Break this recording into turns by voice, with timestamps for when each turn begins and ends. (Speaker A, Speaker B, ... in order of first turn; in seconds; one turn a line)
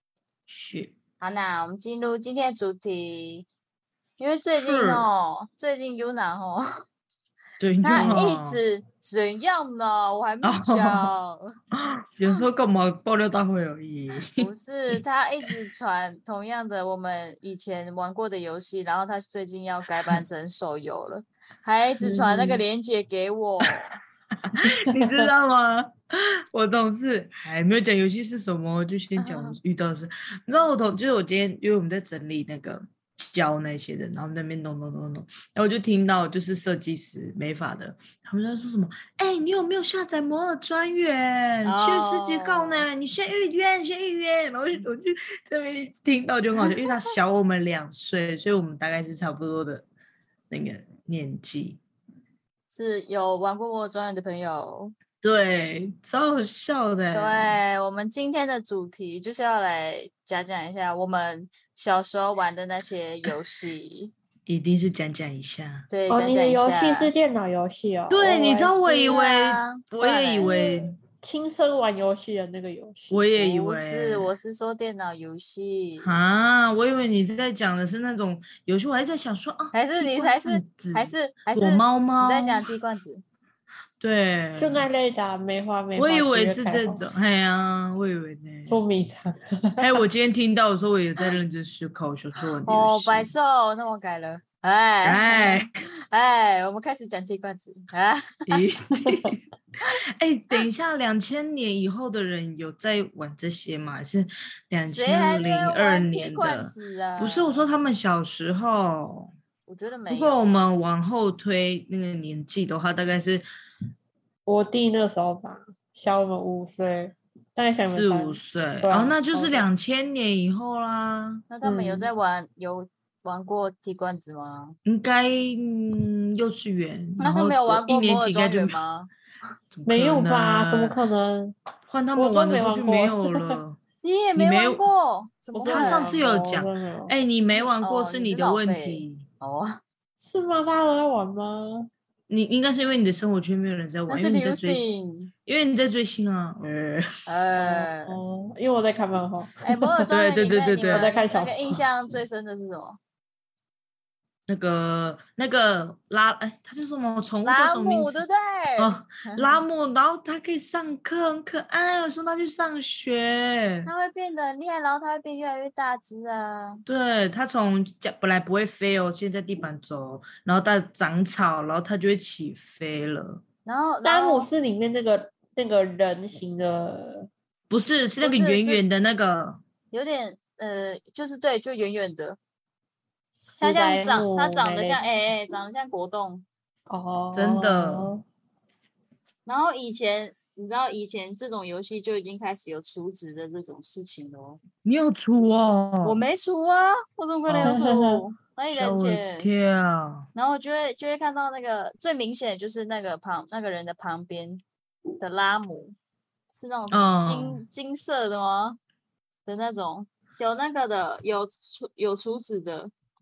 Speaker A: 0.5-0.9
Speaker B: 1.2-3.5
Speaker B: 4.2-6.8
Speaker A: 4.6-5.1
Speaker A: 7.6-8.6
Speaker B: 7.8-11.6
Speaker C: 8.0-8.2
Speaker A: 10.4-11.1
Speaker A: 11.7-14.5
Speaker B: 14.3-24.0
Speaker C: 22.0-22.6
Speaker A: 24.5-49.9
Speaker C: 24.9-25.2
Speaker B: 29.2-29.6
Speaker B: 41.6-42.9
Speaker A: 50.5-51.8
Speaker B: 52.7-54.9
Speaker A: 55.2-57.6
Speaker B: 57.1-64.1
Speaker A: 64.5-65.9
Speaker B: 65.9-67.1
Speaker C: 66.1-69.2
Speaker A: 68.1-71.0
Speaker B: 69.0-70.8
Speaker C: 71.2-73.2
Speaker A: 73.1-74.3
Speaker B: 73.4-76.1
Speaker A: 76.0-82.7
Speaker B: 79.7-83.2
Speaker A: 84.0-84.9
Speaker C: 84.6-87.5
Speaker A: 86.0-88.8
Speaker C: 88.7-89.9
Speaker A: 89.8-93.3
Speaker B: 92.7-98.6
Speaker A: 95.0-95.8
Speaker A: 98.5-109.3
Speaker B: 104.8-107.7
Speaker B: 109.7-110.4
Speaker A: 110.1-113.4
Speaker C: 114.5-119.7
Speaker A: 117.8-121.5
Speaker B: 121.5-124.8
Speaker C: 121.6-122.1
Speaker A: 124.8-128.8
Speaker B: 127.2-129.1
Speaker A: 129.7-130.9
Speaker C: 129.9-131.6
Speaker A: 131.9-133.8
Speaker C: 132.2-133.6
Speaker B: 134.0-136.5
Speaker A: 134.3-134.8
Speaker C: 135.5-137.1
Speaker A: 135.7-139.2
Speaker B: 137.5-139.8
Speaker C: 140.2-141.9
Speaker A: 142.3-144.9
Speaker B: 144.1-145.3
Speaker A: 145.5-147.2
Speaker B: 147.3-148.2
Speaker C: 147.6-150.1
Speaker B: 149.6-153.0
Speaker A: 150.1-151.2
Speaker C: 150.9-151.8
Speaker A: 154.5-158.2
Speaker B: 157.4-159.6
Speaker A: 158.8-163.9
Speaker B: 163.9-166.8
Speaker A: 166.9-173.4
Speaker B: 173.7-174.5
Speaker C: 174.0-177.3
Speaker A: 177.7-179.6
Speaker B: 178.2-178.8
Speaker B: 179.9-182.4
Speaker C: 183.3-185.0
Speaker B: 183.6-186.5
Speaker C: 186.9-188.2
Speaker A: 187.3-188.1
Speaker B: 189.5-194.6
Speaker A: 194.8-196.2
Speaker B: 196.0-199.5
Speaker A: 197.5-197.8
Speaker C: 197.6-198.2
Speaker A: 198.7-200.3
Speaker B: 200.3-204.6
Speaker B: 205.2-205.9
Speaker B: 206.5-208.8
Speaker A: 206.9-207.6
Speaker B: 209.5-212.9